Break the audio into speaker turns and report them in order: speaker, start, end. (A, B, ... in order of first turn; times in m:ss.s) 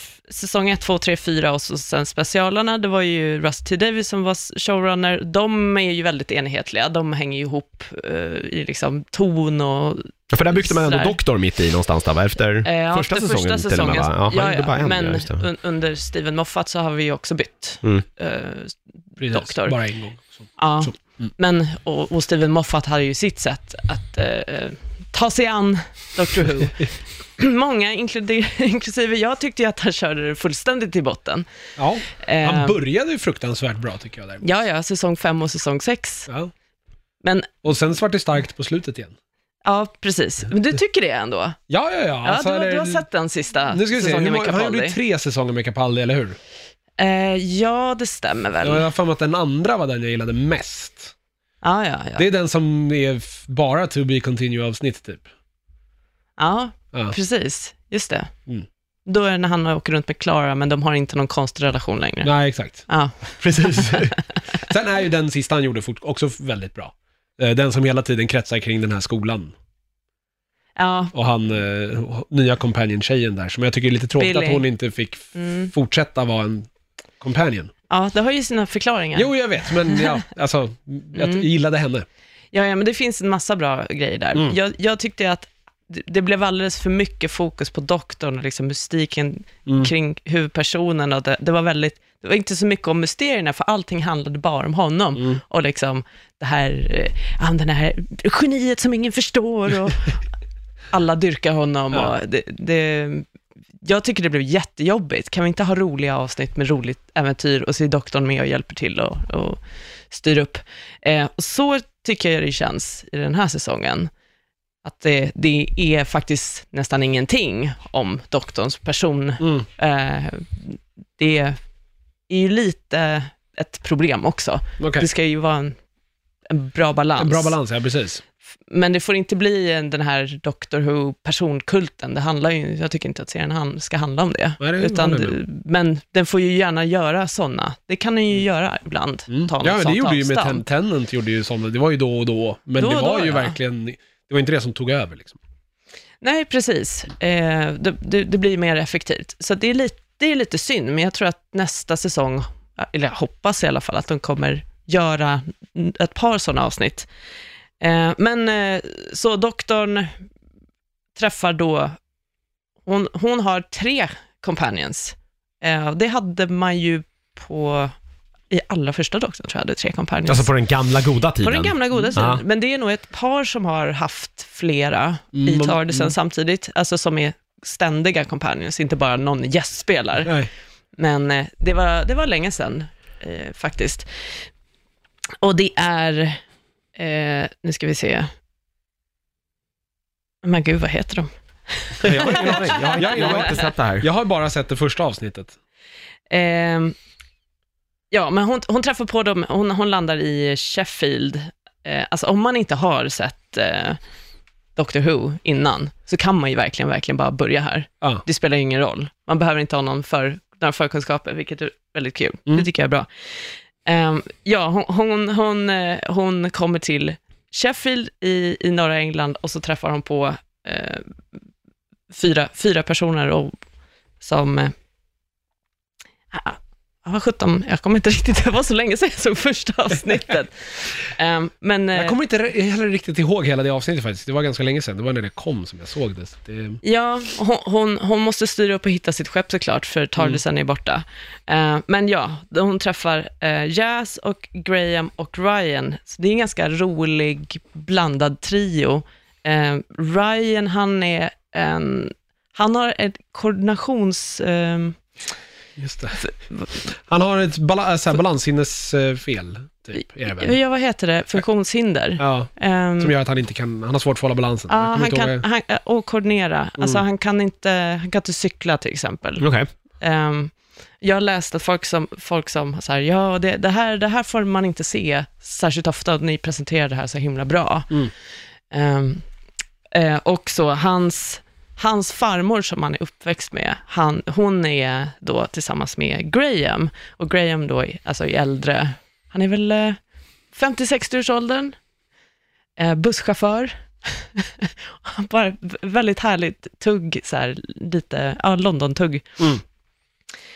0:00.3-0:11.2 A
0:10.3-0:15.4 B
0:12.6-0:19.8 A
0:19.2-0:21.3 C
0:20.6-0:31.4 A
0:31.8-0:34.5 C
0:32.1-0:32.8 A
0:34.4-0:36.3 A
0:37.2-0:37.5 A
0:37.6-0:39.1 C
0:39.6-0:41.6 A
0:41.7-0:43.0 C
0:42.2-0:45.0 A
0:43.7-0:46.4 C
0:47.0-0:48.8 A
0:48.6-0:51.1 C
0:51.6-0:52.2 A
0:52.2-0:55.2 C
0:56.4-0:58.3 A
0:59.0-1:02.3 A
1:02.2-1:09.5 C
1:02.9-1:04.4 A
1:10.8-1:11.1 A
1:11.1-1:16.7 C
1:14.2-1:14.6 A
1:15.3-1:15.7 A
1:17.2-1:17.7 C
1:17.9-1:20.0 A
1:19.1-1:22.0 C
1:21.1-1:21.4 A
1:22.5-1:40.2 A
1:29.6-1:29.9 C
1:35.2-1:35.4 C
1:40.9-1:43.3 A
1:43.8-1:54.1 A
1:54.8-2:01.6 A
1:59.4-1:59.7 C
2:02.3-2:05.8 A
2:04.8-2:05.1 C
2:06.5-2:07.6 A
2:07.2-2:08.2 C
2:08.7-2:20.6 A
2:14.6-2:15.4 C
2:19.3-2:25.4 C
2:22.8-2:23.5 A
2:26.2-2:37.1 A
2:37.8-2:40.1 A
2:41.1-2:42.0 A
2:42.8-2:47.9 A
2:48.5-2:50.5 A
2:50.3-2:52.4 B
2:51.4-3:00.3 A
2:55.3-2:56.1 C
3:01.0-3:04.5 A
3:05.4-3:06.4 A
3:07.0-3:08.3 A
3:10.4-3:13.7 A
3:12.0-3:14.1 B
3:12.0-3:15.5 C
3:16.3-3:17.0 A
3:18.1-3:24.0 A
3:24.8-3:41.1 A
3:42.1-3:43.5 A
3:44.2-3:44.7 A
3:46.3-3:52.2 A
3:51.9-3:56.8 C
3:56.8-4:15.0 A
4:15.8-4:20.6 C
4:16.2-4:16.6 A
4:20.3-4:23.1 A
4:22.2-4:25.4 C
4:24.7-4:37.9 A
4:26.8-4:27.0 C
4:29.4-4:29.7 B
4:38.7-4:39.2 A
4:39.9-4:50.0 A
4:50.5-4:51.8 A
4:52.8-4:59.5 A